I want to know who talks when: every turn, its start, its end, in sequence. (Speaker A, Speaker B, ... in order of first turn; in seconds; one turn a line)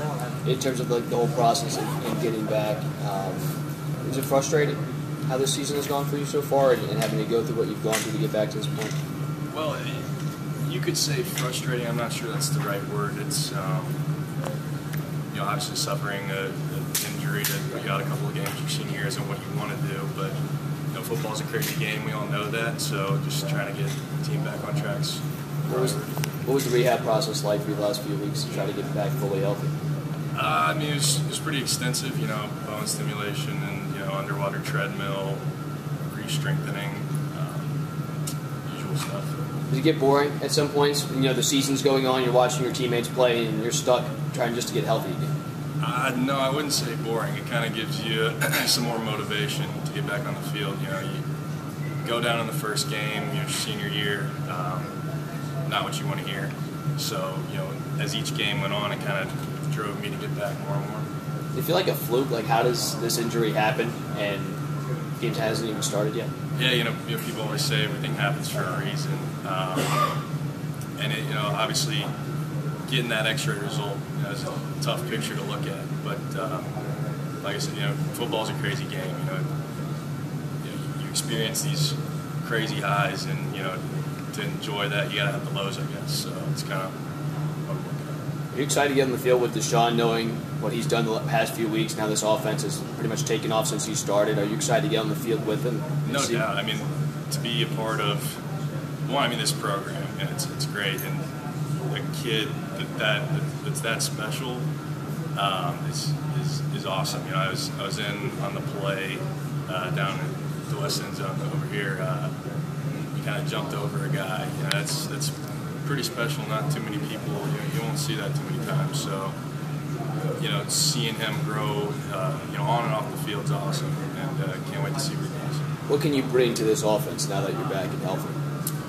Speaker A: 0.5-8.9
Speaker B: 9.5-10.0
Speaker B: 10.6-13.9
Speaker B: 15.3-20.4
Speaker B: 20.9-26.2
Speaker A: 25.7-29.7
Speaker B: 30.4-35.4
Speaker B: 36.1-37.7
Speaker B: 38.7-39.4
Speaker A: 39.7-45.3
Speaker B: 45.8-51.2
Speaker B: 52.0-54.9
Speaker B: 55.7-61.1
Speaker A: 61.5-64.6
Speaker A: 65.2-66.3
Speaker B: 66.6-70.0
Speaker B: 71.0-72.1
Speaker B: 72.9-76.7
Speaker B: 77.4-79.5
Speaker B: 80.6-83.8
Speaker B: 84.3-86.9
Speaker B: 87.7-88.1
Speaker A: 88.5-96.5
Speaker B: 96.0-98.4
Speaker B: 99.1-101.2
Speaker B: 101.9-104.7
Speaker B: 105.3-112.3
Speaker B: 113.1-115.3
Speaker B: 115.8-119.3
Speaker B: 120.4-125.6
Speaker A: 125.9-128.4